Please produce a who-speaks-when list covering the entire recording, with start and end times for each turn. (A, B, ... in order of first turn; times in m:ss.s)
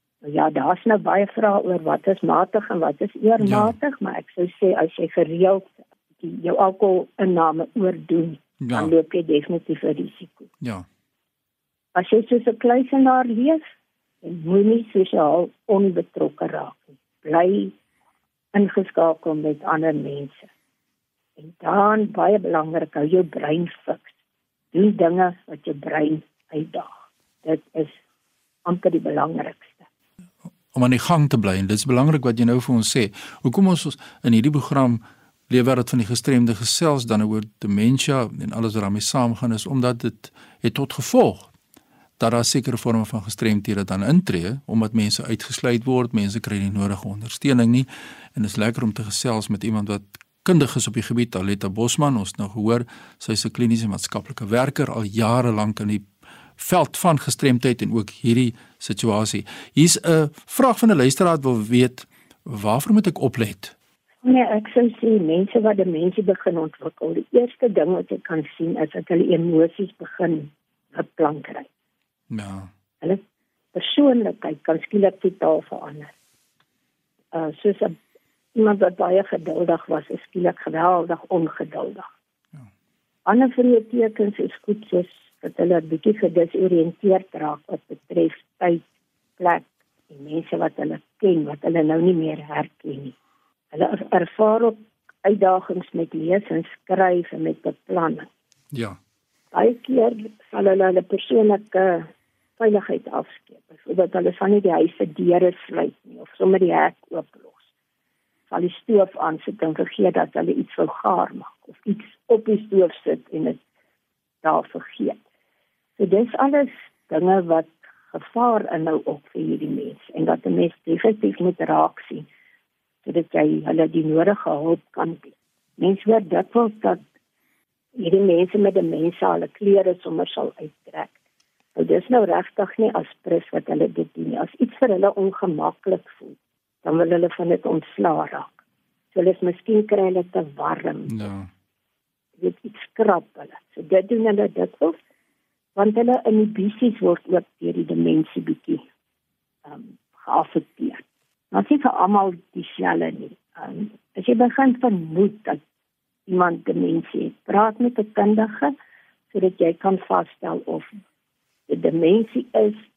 0:00.2-0:10.5 A
0:03.4-0:03.7 B
0:08.6-0:08.9 B
0:11.9-0:13.6 A
0:14.2-0:17.8 A
0:18.5-0:20.5 A
0:21.4-0:24.1 A
0:24.7-0:26.9 A
0:27.4-0:27.9 A
0:28.6-0:29.8 A
0:30.7-0:41.5 B
0:42.2-1:03.7 B
1:04.2-1:11.7 A
1:12.3-1:12.7 B
1:13.7-1:16.1 A
1:17.3-1:18.0 A
1:18.5-1:22.1 A
1:23.3-1:28.8 A
1:29.4-1:33.2 A
1:33.7-1:38.3 A
1:38.7-1:39.0 B
1:39.5-1:47.7 A
1:48.5-1:53.6 A
1:54.4-1:55.2 A
1:56.0-2:02.3 A
2:03.0-2:07.0 A
2:08.0-2:11.1 A
2:11.8-2:18.5 A
2:19.1-2:21.3 A
2:21.1-2:21.5 B
2:22.4-2:25.0 A
2:25.8-2:28.8 A
2:29.7-2:35.6 A
2:36.3-2:38.7 A
2:39.3-2:40.9 A
2:41.7-2:42.8 A